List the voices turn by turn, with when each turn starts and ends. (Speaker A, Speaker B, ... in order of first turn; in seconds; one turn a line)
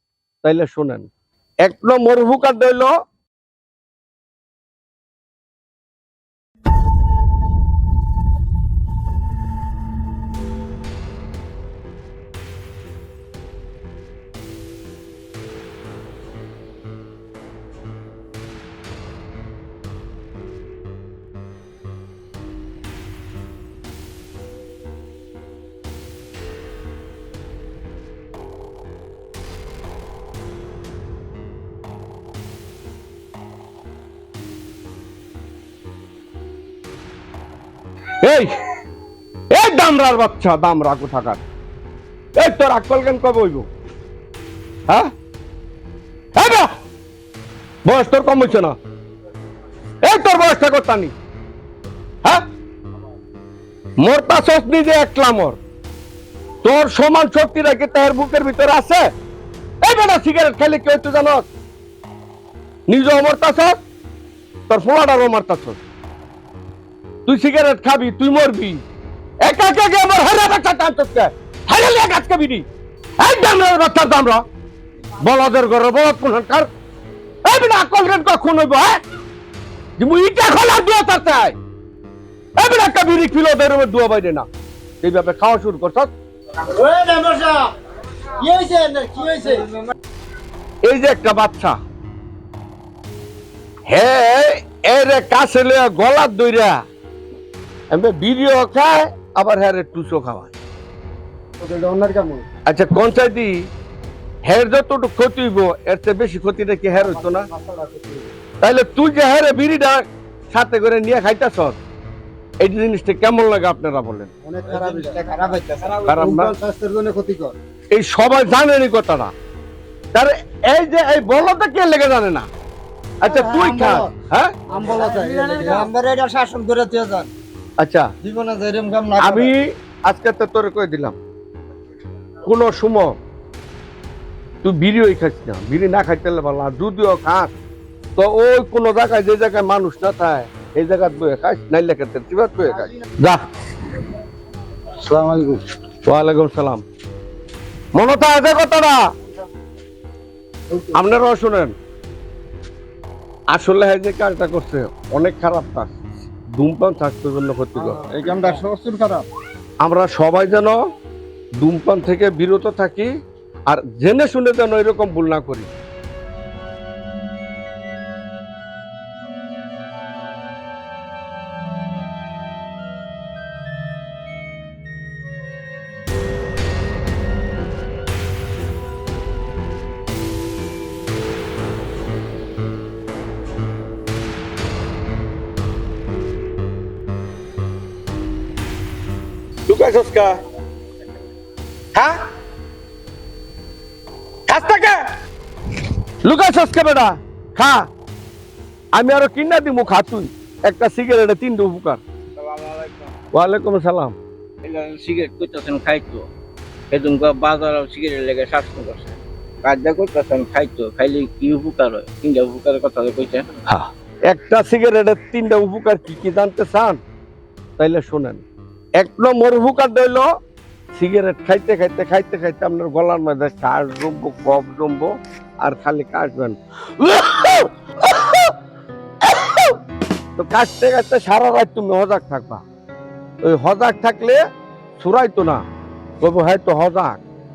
Speaker A: 0.4-1.1
Speaker A: 1.6-2.9
Speaker A: 38.2-38.5
Speaker A: 39.5-41.4
Speaker A: 42.4-43.7
Speaker A: 46.4-46.7
Speaker A: 47.9-48.8
Speaker A: 50.0-51.1
Speaker A: 54.0-55.6
Speaker A: 56.6-59.0
Speaker A: 59.8-61.5
Speaker A: 62.9-63.8
Speaker A: 64.7-65.8
Speaker A: 67.3-68.8
Speaker A: 69.4-72.7
Speaker A: 73.2-74.4
Speaker A: 75.2-76.7
Speaker A: 77.5-79.0
Speaker A: 80.0-81.6
Speaker A: 82.6-84.5
Speaker A: 85.0-86.1
Speaker B: 86.6-87.7
Speaker B: 88.4-89.7
Speaker A: 90.8-91.8
Speaker A: 93.9-96.8
Speaker A: 97.9-100.5
Speaker B: 101.6-102.5
Speaker A: 102.7-103.5
Speaker A: 104.5-107.5
Speaker B: 107.0-108.3
Speaker A: 108.6-111.8
Speaker A: 112.6-114.3
Speaker B: 114.5-117.5
Speaker A: 116.1-116.5
Speaker A: 117.9-119.3
Speaker A: 120.1-122.5
Speaker A: 123.2-124.5
Speaker B: 123.2-124.1
Speaker B: 124.7-127.3
Speaker A: 127.8-128.1
Speaker B: 128.2-129.5
Speaker A: 129.2-131.2
Speaker A: 132.4-133.2
Speaker A: 134.6-137.5
Speaker A: 138.2-143.4
Speaker B: 145.0-145.6
Speaker A: 146.1-146.8
Speaker A: 147.9-149.0
Speaker A: 150.9-151.7
Speaker A: 153.5-156.0
Speaker A: 156.5-158.1
Speaker B: 157.8-159.3
Speaker A: 159.8-160.8
Speaker A: 161.6-163.1
Speaker A: 163.7-165.7
Speaker A: 189.7-190.3
Speaker A: 194.5-194.9
Speaker A: 196.2-197.8
Speaker A: 198.9-202.0
Speaker C: 202.4-203.1
Speaker A: 203.3-204.2
Speaker C: 204.6-206.3
Speaker C: 206.9-213.5
Speaker A: 213.7-217.0
Speaker A: 217.8-218.4
Speaker A: 219.0-220.3
Speaker A: 221.0-225.1
Speaker A: 225.6-228.5
Speaker A: 229.2-229.8
Speaker A: 230.4-232.6
Speaker A: 233.4-234.4
Speaker A: 235.0-235.6
Speaker A: 236.2-237.2